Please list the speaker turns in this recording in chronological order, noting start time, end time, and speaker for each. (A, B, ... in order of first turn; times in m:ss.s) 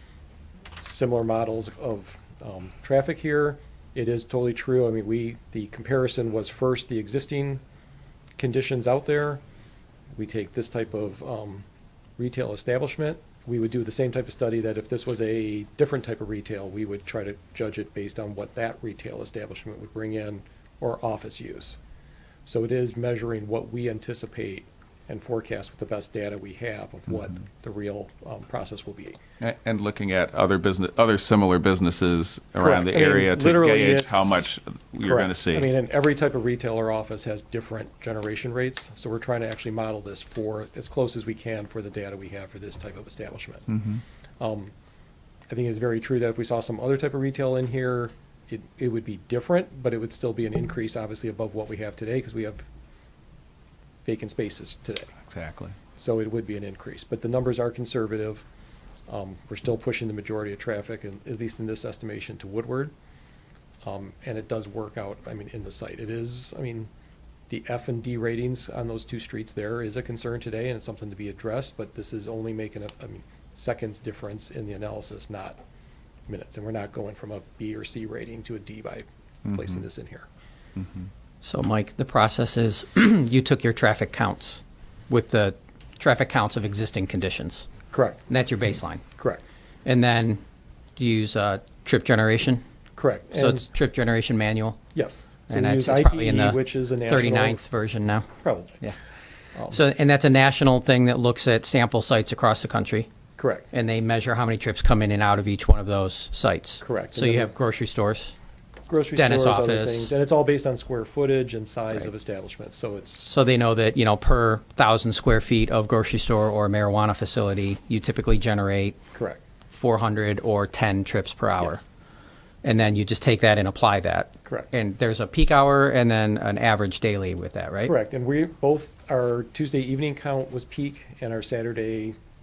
0:00.8-0:07.6 A
0:08.4-0:09.4 A
0:10.1-0:11.6 A
0:12.2-0:21.8 A
0:22.4-0:29.2 A
0:29.4-0:35.7 B
0:32.6-0:34.5 A
0:35.0-0:44.7 A
0:45.5-0:52.7 A
0:54.0-0:55.1 A
0:55.2-0:55.8 B
0:56.0-0:58.4 A
0:59.1-1:02.9 A
1:03.8-1:06.9 A
1:07.5-1:15.6 A
1:16.3-1:20.3 A
1:19.5-1:19.7 B
1:20.8-1:21.1 B
1:21.4-1:27.7 C
1:27.9-1:28.2 A
1:28.3-1:29.0 C
1:29.8-1:30.4 C
1:31.0-1:32.6 C
1:33.0-1:33.7 A
1:33.3-1:34.8 C
1:34.9-1:37.6 A
1:35.5-1:38.3 C
1:38.4-1:38.8 A
1:39.7-1:43.1 C
1:43.4-1:43.7 A
1:43.7-1:48.3 C
1:46.8-1:47.5 A
1:48.9-1:53.3 A
1:49.2-1:50.1 C
1:53.2-1:59.0 C
1:59.1-1:59.4 A
1:59.7-2:01.8 C
2:02.6-2:07.9 C
2:07.8-2:12.2 A